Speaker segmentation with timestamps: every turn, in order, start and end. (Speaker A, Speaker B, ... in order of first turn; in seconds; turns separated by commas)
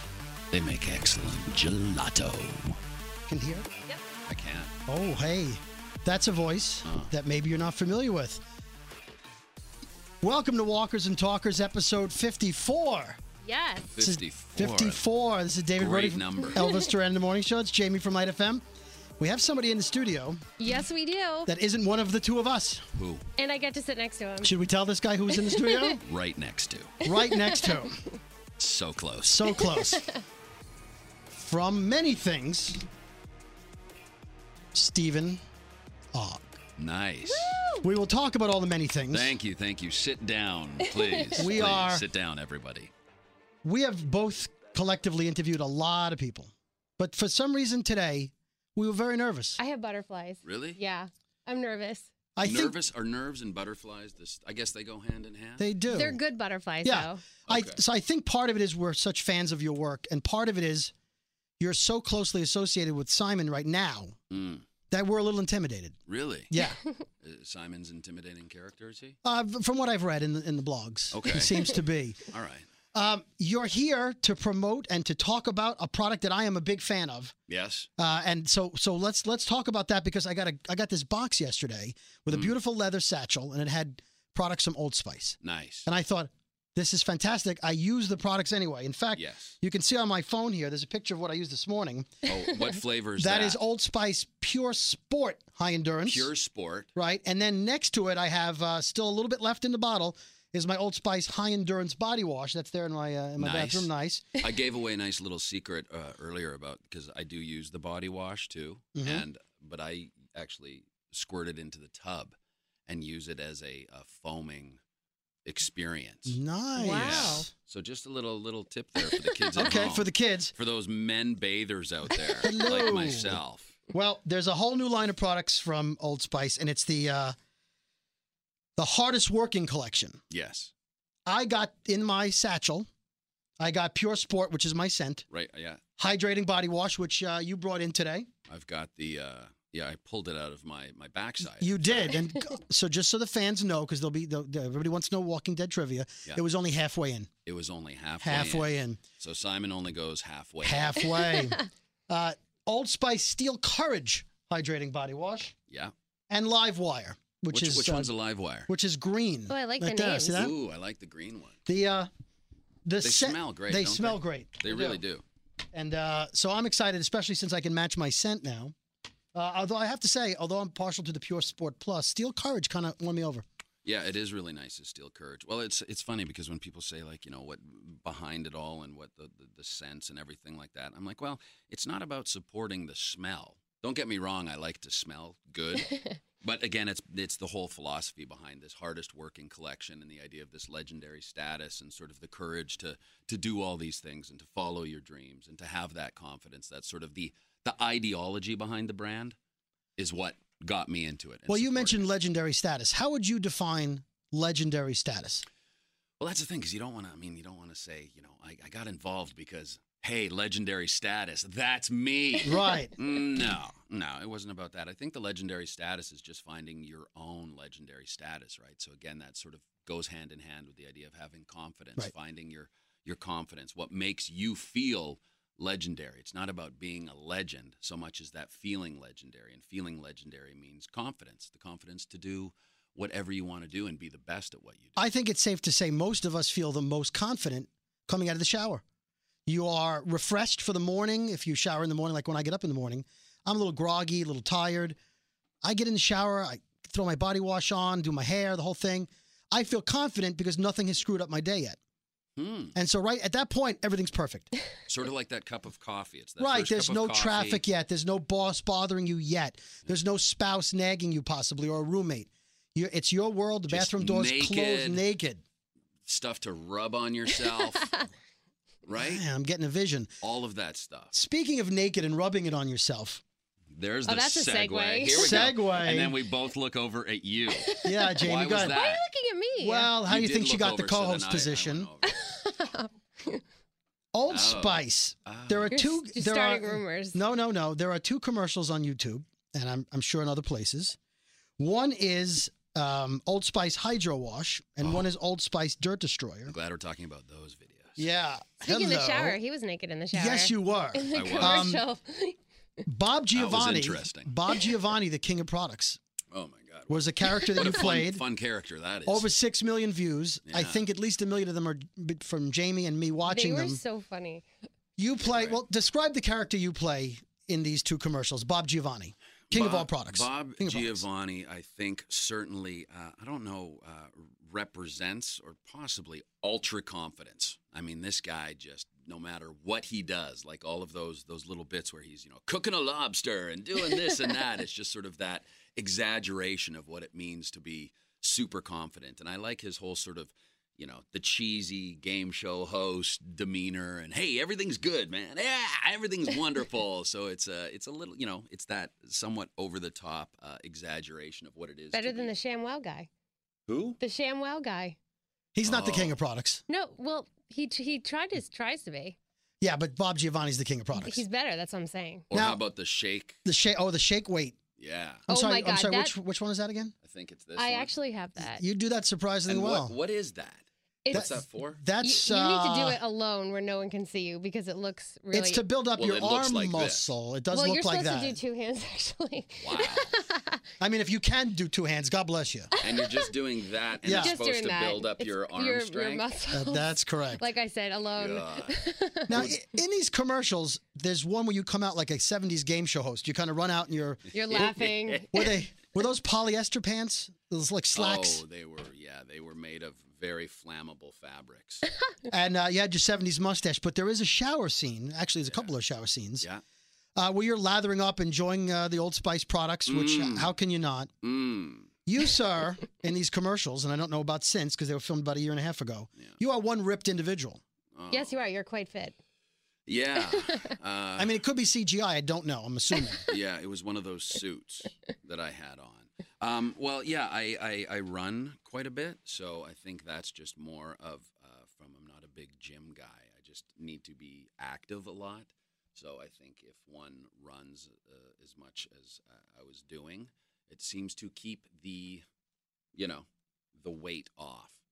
Speaker A: 0.5-2.8, Speaker B: 3.3-3.7, Speaker A: 4.3-4.7, Speaker B: 4.9-8.4, Speaker A: 6.8-7.1, Speaker B: 10.2-13.2, Speaker C: 13.4-13.9, Speaker A: 13.9-15.0, Speaker B: 14.0-18.6, Speaker A: 15.8-16.6, Speaker C: 16.6-16.9, Speaker B: 19.2-20.4, Speaker C: 20.6-21.5, Speaker B: 21.4-22.9, Speaker A: 22.9-23.2, Speaker C: 23.4-24.5, Speaker B: 24.4-26.0, Speaker C: 25.3-26.0, Speaker A: 26.0-26.9, Speaker B: 27.0-28.0, Speaker C: 27.0-28.0, Speaker A: 28.6-29.6, Speaker B: 29.2-30.1, Speaker C: 29.7-30.2, Speaker B: 31.3-32.9, Speaker B: 34.7-35.4, Speaker B: 36.1-36.4, Speaker A: 36.8-37.6, Speaker C: 37.3-37.8, Speaker B: 37.8-39.3, Speaker A: 39.1-42.9, Speaker C: 40.9-41.5, Speaker B: 41.4-42.0, Speaker B: 43.6-49.6, Speaker C: 49.6-52.1, Speaker A: 50.4-50.8, Speaker B: 52.4-52.8, Speaker A: 52.4-55.6, Speaker B: 55.6-56.2, Speaker C: 55.9-57.2, Speaker B: 56.8-60.9, Speaker A: 57.5-57.8, Speaker B: 61.6-64.2, Speaker A: 64.3-64.6, Speaker B: 64.9-66.0, Speaker A: 66.1-66.5, Speaker B: 66.5-66.8, Speaker A: 67.2-69.2, Speaker B: 69.2-72.3, Speaker A: 71.1-71.8, Speaker A: 72.3-72.7, Speaker B: 72.9-77.3, Speaker A: 77.5-77.9, Speaker B: 78.0-92.2, Speaker A: 85.4-85.9, Speaker A: 89.1-89.6, Speaker A: 92.2-93.6, Speaker B: 93.2-96.3, Speaker A: 96.0-96.9, Speaker B: 96.9-104.3, Speaker A: 103.4-112.3, Speaker B: 108.9-109.2, Speaker A: 112.9-114.8, Speaker A: 115.4-116.4, Speaker B: 116.3-117.5, Speaker C: 116.8-117.5, Speaker A: 116.9-123.8, Speaker C: 119.1-119.5, Speaker B: 119.5-120.5, Speaker B: 122.4-123.4, Speaker B: 123.9-127.3, Speaker B: 128.8-130.2, Speaker A: 130.3-130.7, Speaker B: 131.3-132.9, Speaker B: 133.6-135.2, Speaker A: 135.3-135.8, Speaker B: 136.0-138.3, Speaker A: 138.5-142.2, Speaker B: 141.6-147.3, Speaker A: 147.4-151.1, Speaker B: 148.2-149.0, Speaker B: 150.6-155.5, Speaker B: 156.3-158.1, Speaker A: 157.5-158.7, Speaker B: 158.7-160.5, Speaker C: 159.5-160.5, Speaker A: 160.3-161.6, Speaker B: 161.7-162.1, Speaker B: 162.8-165.0, Speaker A: 163.0-165.2, Speaker B: 165.7-168.7, Speaker B: 169.3-173.4, Speaker A: 173.8-199.3, Speaker A: 200.0-202.1, Speaker B: 201.5-205.4, Speaker A: 206.2-235.0, Speaker B: 212.4-212.9, Speaker B: 234.9-238.8, Speaker B: 239.4-245.0, Speaker B: 245.6-251.8, Speaker A: 252.4-252.7, Speaker B: 252.7-254.5, Speaker A: 254.9-257.6, Speaker B: 256.4-265.4, Speaker A: 263.7-265.0, Speaker A: 266.0-267.9, Speaker A: 268.8-269.2, Speaker B: 268.9-270.1, Speaker A: 270.2-271.1, Speaker B: 271.1-273.2, Speaker A: 273.7-279.0, Speaker C: 274.1-275.5, Speaker B: 275.1-276.1, Speaker C: 277.5-279.9, Speaker B: 277.8-278.8, Speaker B: 279.6-281.9, Speaker A: 280.0-282.3, Speaker C: 282.1-283.4, Speaker B: 284.1-291.0, Speaker A: 284.3-285.8, Speaker C: 285.7-287.2, Speaker B: 291.6-296.5, Speaker A: 294.8-295.1, Speaker A: 296.5-298.0, Speaker B: 298.0-299.4, Speaker C: 298.6-302.4, Speaker B: 300.1-301.8, Speaker A: 301.1-301.7, Speaker B: 302.9-306.0, Speaker A: 303.3-304.3, Speaker A: 306.3-309.3, Speaker B: 306.9-308.2, Speaker B: 309.1-313.8, Speaker A: 310.5-310.9, Speaker C: 313.2-314.4, Speaker B: 315.0-321.0, Speaker A: 315.2-315.6, Speaker A: 319.5-352.3, Speaker C: 351.9-353.1, Speaker A: 353.7-354.0, Speaker C: 354.0-355.0, Speaker B: 355.5-356.6, Speaker A: 355.6-356.1, Speaker C: 356.7-359.2, Speaker B: 359.6-361.2, Speaker C: 360.9-362.3, Speaker A: 362.3-363.4, Speaker B: 362.3-362.6, Speaker B: 363.4-364.6, Speaker A: 364.8-365.2, Speaker C: 365.3-366.1, Speaker B: 365.3-366.9, Speaker A: 367.0-367.9, Speaker C: 367.6-368.6, Speaker B: 368.4-369.9, Speaker A: 369.5-371.8, Speaker C: 371.0-371.4, Speaker B: 371.1-373.0, Speaker C: 372.0-375.6, Speaker B: 375.3-378.4, Speaker A: 375.9-377.1, Speaker C: 377.5-380.6, Speaker A: 379.6-380.1, Speaker B: 380.8-382.7, Speaker A: 382.8-386.3, Speaker C: 382.9-383.3, Speaker B: 384.0-384.3, Speaker C: 384.0-389.5, Speaker B: 386.5-387.4, Speaker A: 388.1-388.8, Speaker B: 389.3-394.8, Speaker C: 394.3-395.6, Speaker A: 394.5-395.2, Speaker B: 395.3-398.4, Speaker A: 397.9-401.9, Speaker B: 402.3-406.4, Speaker B: 407.1-411.1, Speaker A: 409.9-410.5, Speaker A: 411.2-411.9, Speaker B: 412.1-417.6, Speaker A: 417.9-418.4, Speaker C: 418.1-419.1, Speaker A: 419.9-421.3, Speaker B: 421.2-423.2, Speaker A: 423.3-442.2, Speaker A: 442.9-443.2, Speaker A: 443.8-444.8